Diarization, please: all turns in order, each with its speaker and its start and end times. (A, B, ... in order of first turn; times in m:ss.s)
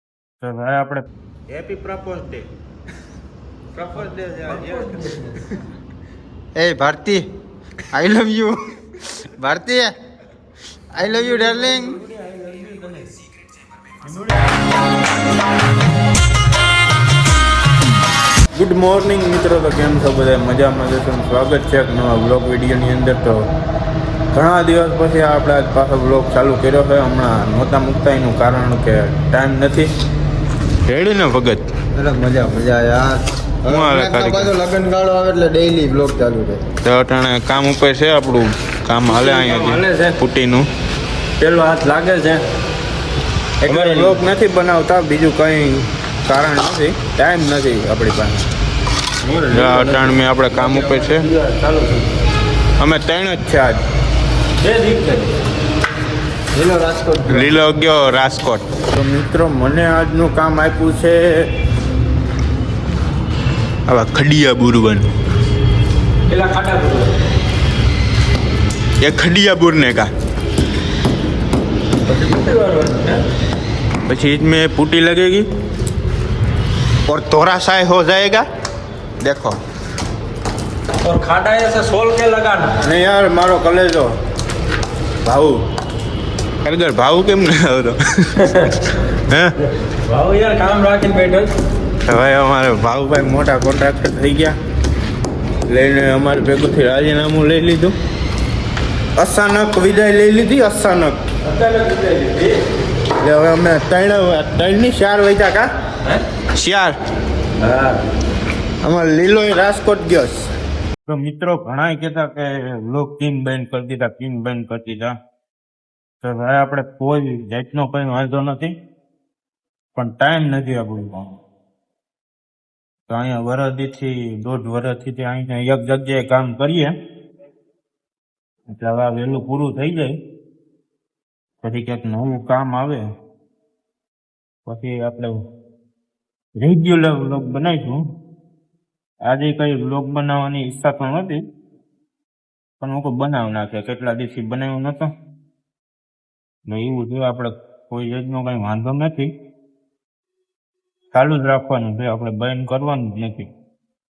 0:00.4-0:02.5 A
0:03.7-0:05.6 A
0:04.4-0:05.4 B
0:06.6-0:07.2 C
0:07.9-0:09.9 C
0:10.9-0:12.0 C
0:11.2-0:13.3 B
0:13.9-0:14.6 B
0:18.6-0:23.5 A
0:24.3-0:29.9 A
0:30.9-0:31.7 A
0:32.0-0:36.6 C
0:33.7-0:34.6 A
0:36.8-0:40.7 A
0:39.1-0:40.2 B
0:41.4-0:42.4 B
0:43.6-0:48.4 A
0:43.7-0:44.2 B
0:49.2-0:52.2 B
0:49.5-0:51.3 A
0:52.8-0:53.8 A
0:54.6-0:55.3 B
0:56.5-0:57.6 B
0:57.3-1:01.5 A
1:03.9-1:05.1 A
1:06.3-1:07.1 B
1:09.0-1:10.1 A
1:12.0-1:13.2 B
1:14.1-1:15.5 A
1:17.1-1:18.4 A
1:19.2-1:19.6 A
1:21.0-1:22.8 B
1:22.8-1:24.1 A
1:25.2-1:25.6 A
1:26.6-1:29.6 A
1:28.4-1:28.8 B
1:29.9-1:31.5 B
1:32.0-1:34.6 A
1:35.7-1:38.0 A
1:39.2-1:41.2 A
1:41.4-1:42.6 B
1:43.2-1:45.7 A
1:46.5-1:47.0 A
1:47.6-1:48.0 B
1:48.8-1:50.5 A
1:51.1-1:55.2 A
1:56.2-1:58.8 A
2:00.0-2:01.3 A
2:03.1-2:06.9 A
2:08.7-2:10.1 A
2:11.6-2:13.1 A
2:14.6-2:15.4 A
2:16.6-2:18.0 A
2:19.3-2:21.4 A
2:22.8-2:25.1 A
2:26.7-2:29.3 A
2:31.1-2:33.5 A